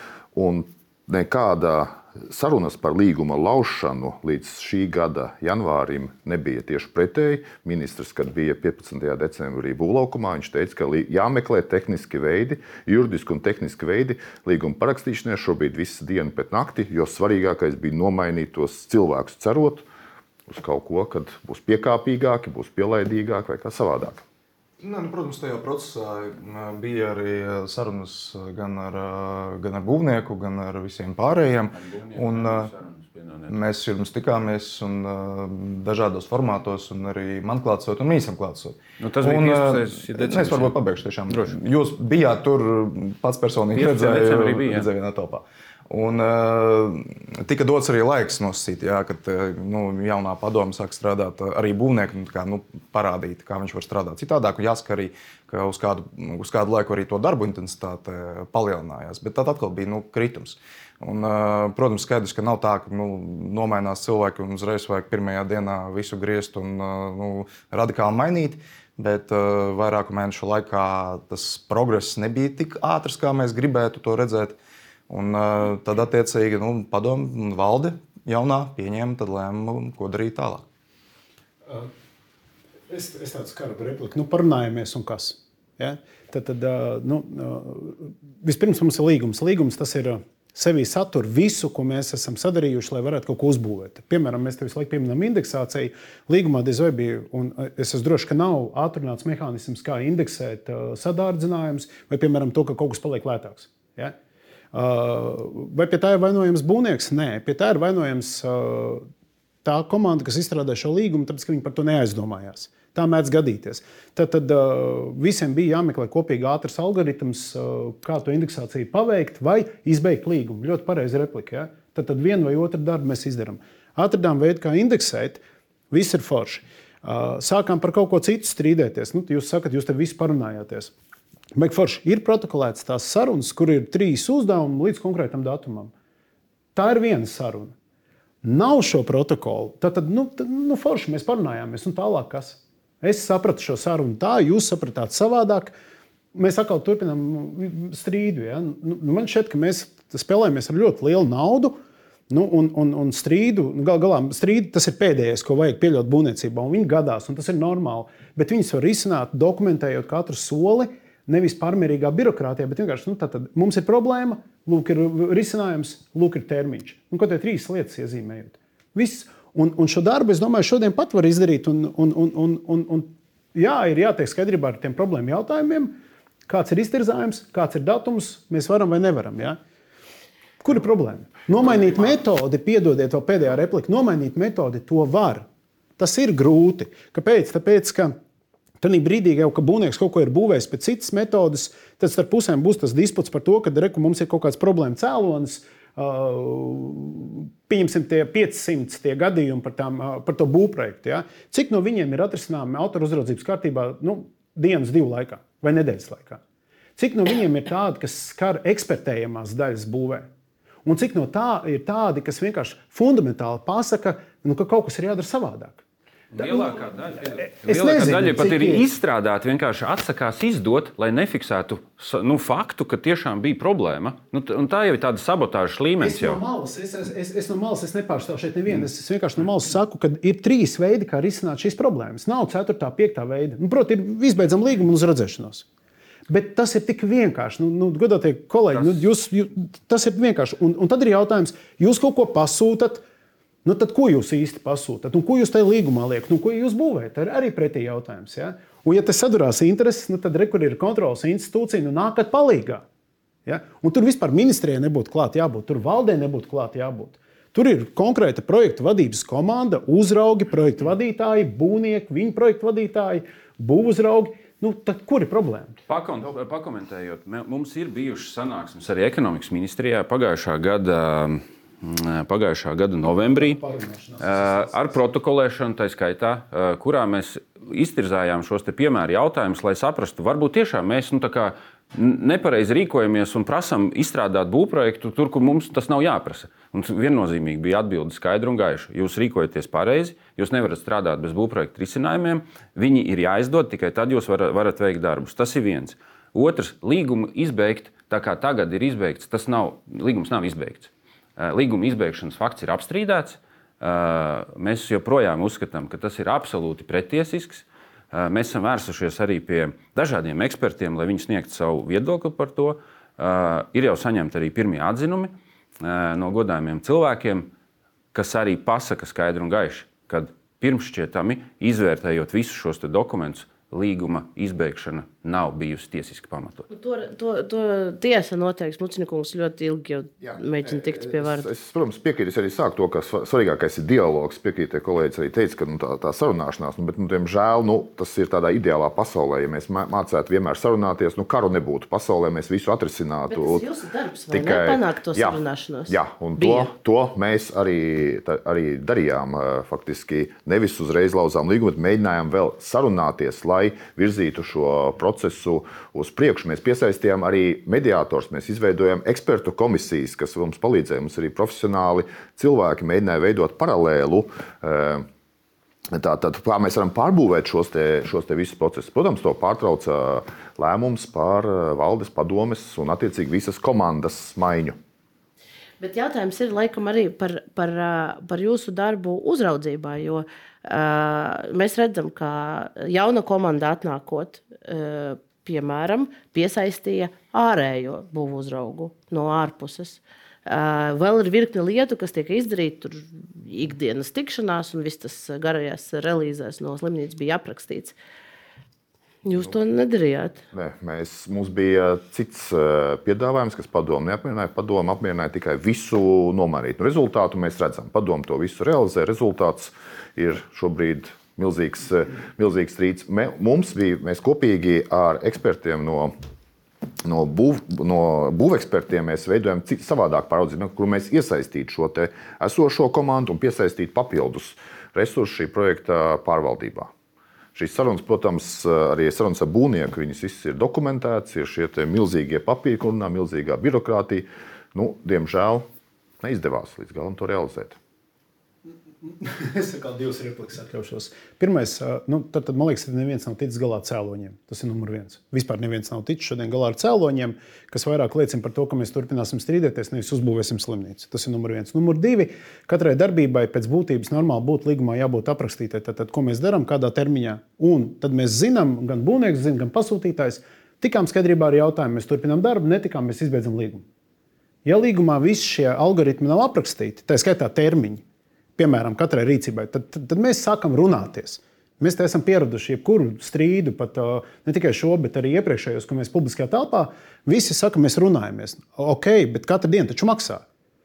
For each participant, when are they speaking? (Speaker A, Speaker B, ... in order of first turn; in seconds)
Speaker A: 0.3-19.9, 20.5-24.2, 330.2-343.6, 344.3-365.1, 365.9-374.8, 400.5-416.1, 417.0-426.9, 427.6-435.7, 436.2-437.8
Speaker B: 24.8-32.7, 33.5-74.6, 75.1-80.7
Speaker C: 31.7-33.6, 39.0-40.8, 41.3-41.5, 43.8-44.9, 216.3-226.4, 238.7-239.0, 265.9-273.6, 274.2-317.5, 318.1-326.7
Speaker D: 82.9-104.2, 104.7-109.1, 109.6-130.9, 131.5-135.9, 136.8-137.7, 138.4-145.7, 146.3-151.8, 152.3-179.6, 180.6-185.5, 186.0-188.2, 188.8-206.4, 207.0-210.3, 210.8-215.8, 216.3-218.9, 226.0-235.7, 236.3-243.0, 243.7-252.8, 253.5-265.8, 273.1-275.0, 439.0-463.9, 464.6-468.0, 468.6-480.4
Speaker E: 326.7-331.5, 343.3-346.7, 375.8-398.0, 399.2-400.4